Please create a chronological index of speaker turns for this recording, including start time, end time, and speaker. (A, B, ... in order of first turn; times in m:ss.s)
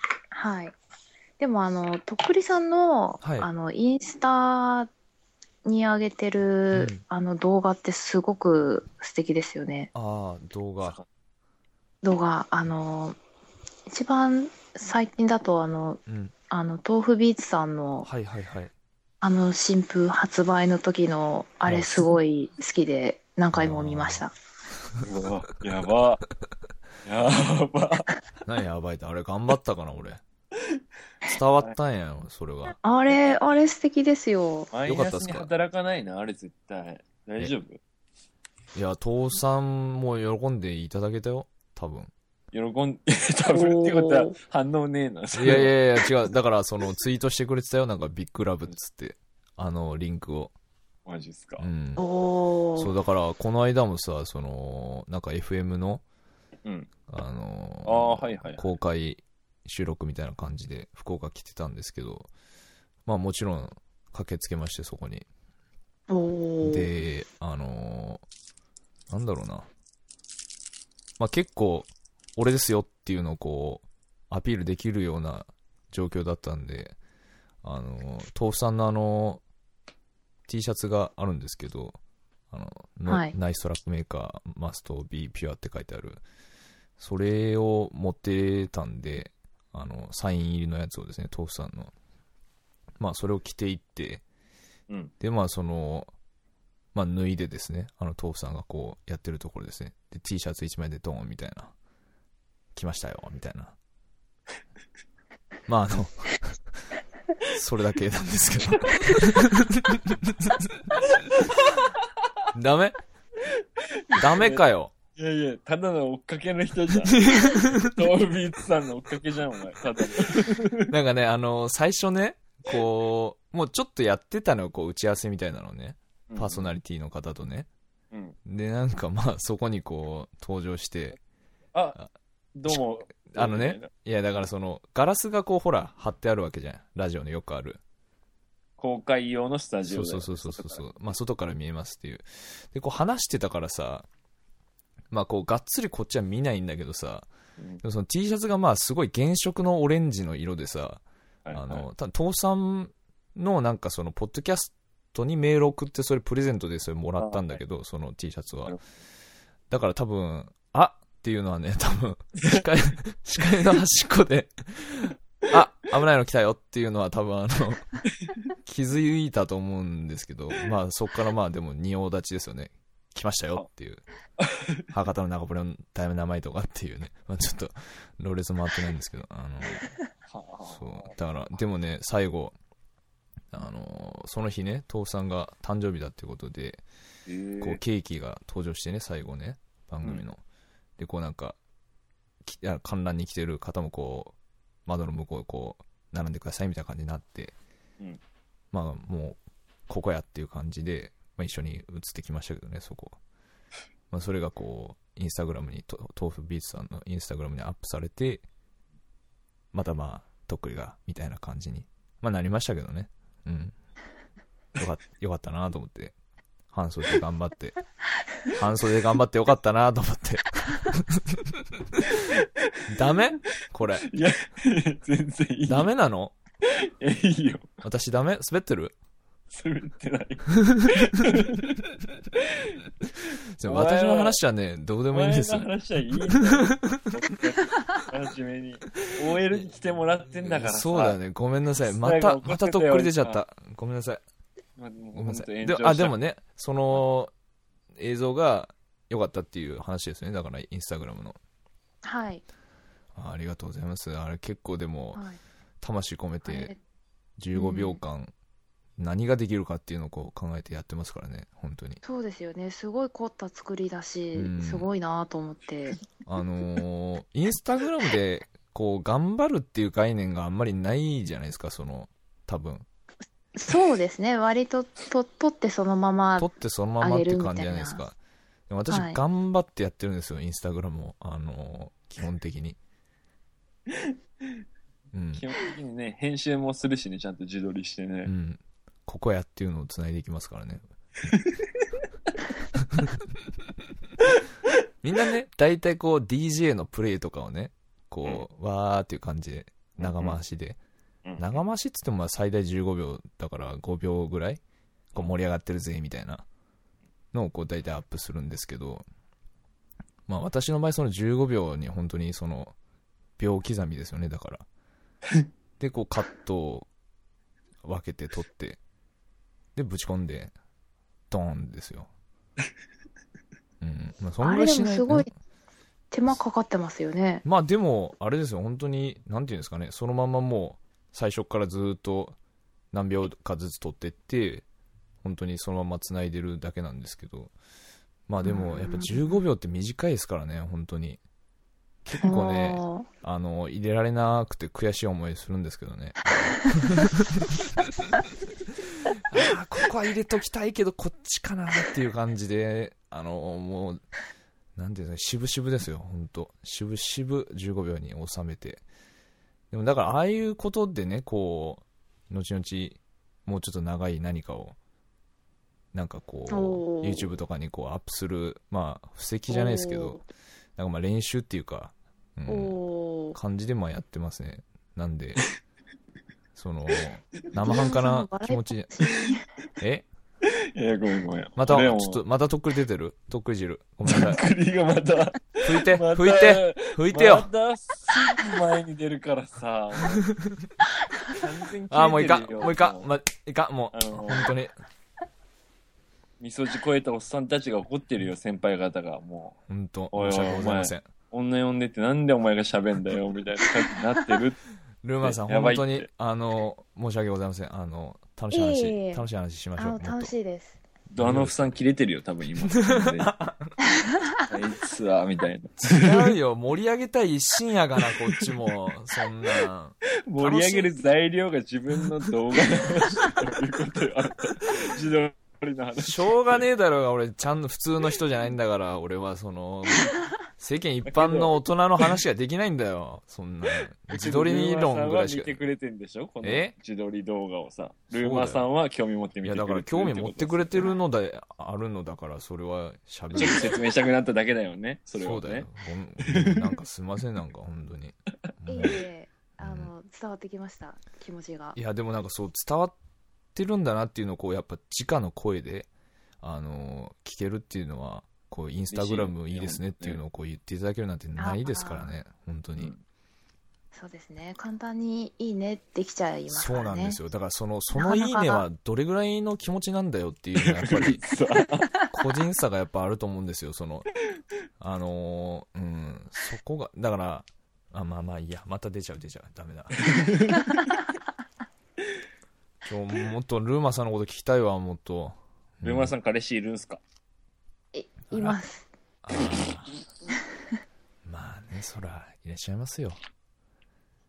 0:00.3-0:00.8 A
0:01.4-0:04.9 A
0:03.2-0:03.5 B
0:05.6-0:09.9 A
0:06.7-0:07.0 B
0:09.9-0:11.0 B
0:12.0-0:13.2 A
0:13.9-0:18.1 A
0:16.1-0:16.3 B
0:18.0-0:18.7 B
0:19.2-0:24.3 A
0:23.5-0:24.2 B
0:25.0-0:26.2 C
0:27.0-0:28.1 C
0:28.4-0:30.2 B
0:31.2-0:32.8 B
0:32.8-0:34.7 A
0:34.7-0:37.8 C
0:34.9-0:35.5 B
0:38.7-0:42.1 B
0:42.5-0:45.7 C
0:43.5-0:44.4 A
0:45.3-0:50.5 B
0:51.1-0:51.7 C
0:51.6-0:52.0 B
0:52.0-0:52.9 A
0:52.8-0:56.0 B
0:56.6-0:56.9 C
0:57.1-1:02.3 B
0:57.8-0:58.7 C
1:03.1-1:05.2 B
1:06.1-1:06.9 A
1:06.6-1:08.2 B
1:09.1-1:09.7 B
1:11.2-1:17.0 B
1:17.6-1:19.4 B
1:20.5-1:22.0 B
1:22.5-1:26.2 B
1:23.1-1:23.3 A
1:27.0-1:31.9 B
1:33.0-1:34.2 B
1:35.2-1:36.1 B
1:36.9-1:41.7 B
1:42.7-1:43.7 B
1:45.7-1:46.6 B
1:47.5-1:51.0 B
1:52.5-1:53.0 B
1:53.5-1:54.6 C
1:54.2-1:54.9 B
1:55.2-2:00.9 C
1:57.1-1:58.0 B
2:00.8-2:07.7 B
2:06.3-2:06.7 C
2:08.4-2:11.2 B
2:12.6-2:13.9 C
2:12.7-2:17.8 B
2:18.8-2:20.9 C
2:19.9-2:24.1 B
2:25.1-2:27.3 B
2:27.8-2:31.0 B
2:31.4-2:31.9 C
2:31.5-2:38.8 B
2:37.2-2:37.6 C
2:39.7-2:47.9 B
2:48.6-2:54.0 B
2:54.4-2:54.8 C
2:54.9-2:59.9 B
3:00.3-3:01.2 C
3:00.7-3:02.6 B
3:03.5-3:06.8 B
3:07.3-3:07.8 C
3:07.6-3:10.4 B
3:11.0-3:11.6 B
3:12.4-3:14.4 B
3:14.9-3:17.6 B
3:18.7-3:23.2 B
3:24.1-3:28.4 B
3:29.7-3:33.7 B
3:34.8-3:36.1 B
3:36.7-3:37.8 B
3:38.5-3:41.4 B
3:42.3-3:42.7 C
3:42.9-3:44.1 B
3:44.1-3:45.9 C
3:45.7-3:46.4 B
3:46.7-3:47.7 C
3:47.8-3:48.9 B
3:49.5-3:52.8 C
3:50.7-3:51.2 B
3:53.6-3:55.7 B
3:53.6-3:54.4 C
3:55.1-4:01.2 C
3:56.3-3:57.1 B
4:00.4-4:04.2 B
4:01.8-4:03.4 C
4:04.8-4:06.2 C
4:05.1-4:07.3 B
4:08.0-4:11.4 B
4:12.0-4:12.4 A
4:13.1-4:15.2 B
4:15.1-4:15.4 A
4:15.8-4:16.7 B
4:16.4-4:16.8 A
4:17.4-4:18.3 B
4:17.5-4:18.0 A
4:19.0-4:22.0 B
4:22.0-4:26.0 A
4:24.4-4:24.9 B
4:26.2-4:32.9 B
4:33.6-4:38.0 A
4:36.4-4:38.2 B
4:38.7-4:42.8 B
4:38.9-4:39.2 A
4:43.9-4:44.6 C
4:45.1-4:45.4 B
4:45.4-4:48.3 C
4:48.2-4:50.8 B
4:51.3-4:52.0 C
4:55.0-5:00.8 B
5:00.0-5:00.4 C
5:01.2-5:01.6 C
5:01.4-5:04.6 B
5:05.1-5:06.4 B
5:07.3-5:09.0 B
5:10.3-5:12.7 B
5:13.4-5:14.6 B
5:15.8-5:16.9 B
5:17.8-5:18.8 B
5:19.8-5:20.5 B
5:21.3-5:22.1 B
5:23.8-5:25.3 B
5:24.4-5:25.3 A
5:26.1-5:27.4 A
5:27.4-5:32.4 B
5:32.9-5:34.6 B
5:35.2-5:37.5 B
5:38.3-5:41.2 B
5:38.4-5:39.3 A
5:42.0-5:47.6 B
5:42.2-5:43.1 A
5:49.2-5:54.0 B
5:54.8-5:58.8 B
5:59.7-6:04.8 B
6:05.9-6:10.2 B
6:06.5-6:07.3 A
6:09.5-6:10.2 A
6:10.8-6:12.8 B
6:12.5-6:13.4 A
6:13.4-6:15.4 B
6:16.6-6:18.9 B
6:17.6-6:19.4 A
6:19.8-6:20.1 B
6:20.7-6:22.2 C
6:21.6-6:24.4 B
6:24.1-6:30.2 C
6:25.6-6:27.5 B
6:31.4-6:33.1 C
6:31.9-6:34.7 B
6:33.9-6:34.6 C
6:36.4-6:39.6 C
6:39.7-6:41.1 B
6:40.1-6:44.6 C
6:45.0-6:50.3 B
6:45.2-6:46.1 C
6:48.5-6:50.8 A
6:51.1-6:53.3 C
6:51.2-6:51.8 B
6:52.7-6:53.7 B
6:54.5-6:56.4 C
6:55.8-7:00.9 B
7:00.3-7:06.6 C
7:06.0-7:15.7 B
7:11.0-7:12.1 C
7:14.1-7:20.9 C
7:16.4-7:16.7 B
7:18.1-7:18.7 B
7:19.4-7:23.7 B
7:23.4-7:25.7 C
7:25.2-7:29.0 B
7:26.2-7:26.7 C
7:28.7-7:31.8 A
7:29.6-7:29.9 B
7:31.7-7:32.9 B
7:33.6-7:35.9 B
7:36.4-7:42.9 B
7:38.9-7:40.2 C
7:41.4-7:42.1 A
7:43.9-7:47.2 A
7:46.5-7:51.2 B
7:47.9-7:48.6 A
7:50.6-7:51.9 C
7:52.1-7:54.1 B
7:54.8-8:00.1 B
8:00.0-8:00.8 C
8:02.8-8:06.1 B
8:05.8-8:07.0 C
8:07.9-8:08.9 A
8:08.3-8:08.6 B
8:09.2-8:09.9 B
8:11.2-8:13.2 B